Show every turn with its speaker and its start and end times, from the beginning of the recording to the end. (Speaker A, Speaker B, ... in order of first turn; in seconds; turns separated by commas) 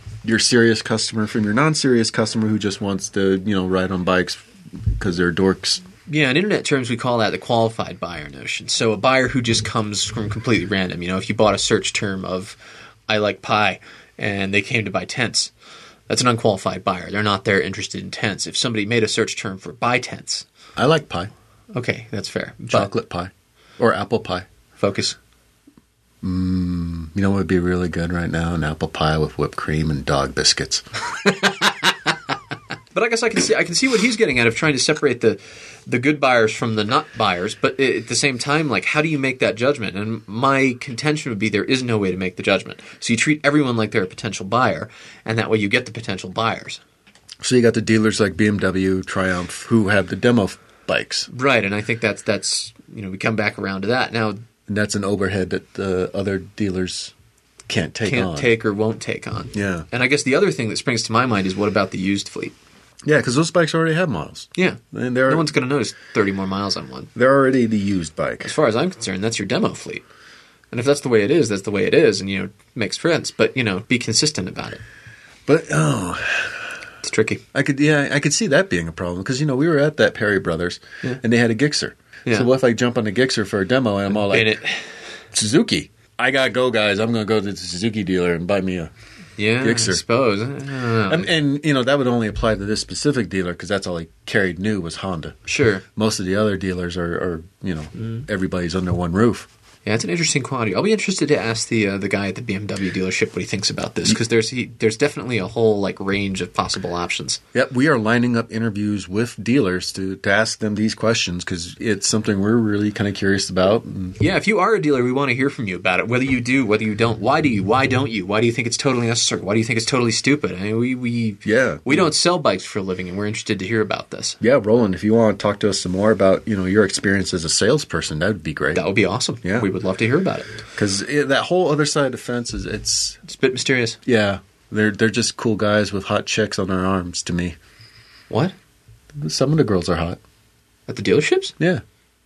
Speaker A: 0.2-5.8, Speaker B: 6.1-12.6, Speaker B: 13.1-15.5, Speaker B: 16.1-20.4, Speaker A: 20.8-21.3, Speaker B: 21.7-22.9, Speaker A: 22.7-24.5, Speaker B: 24.8-25.1, Speaker A: 26.2-30.8, Speaker B: 31.2-31.9, Speaker B: 32.9-46.8, Speaker A: 47.4-51.3, Speaker B: 51.3-54.4, Speaker A: 54.7-57.1, Speaker A: 57.7-58.5, Speaker B: 58.0-62.5, Speaker A: 59.5-59.9, Speaker A: 63.0-65.5, Speaker B: 64.5-67.1, Speaker A: 67.1-68.5, Speaker B: 68.4-70.0, Speaker B: 70.7-74.8, Speaker A: 75.5-76.7, Speaker B: 77.0-77.4, Speaker A: 77.5-84.6, Speaker B: 84.3-84.8, Speaker A: 85.3-88.9, Speaker B: 89.4-91.3, Speaker A: 89.6-90.0, Speaker A: 91.1-95.4, Speaker B: 95.5-95.8, Speaker A: 95.9-99.5, Speaker B: 99.8-107.4, Speaker A: 107.5-114.2, Speaker B: 114.2-124.4, Speaker A: 121.4-122.1, Speaker A: 124.4-128.8, Speaker B: 128.7-130.6, Speaker A: 129.4-129.7, Speaker A: 130.7-133.2, Speaker B: 133.3-134.0, Speaker A: 134.1-137.6, Speaker A: 139.1-140.2, Speaker B: 140.9-141.5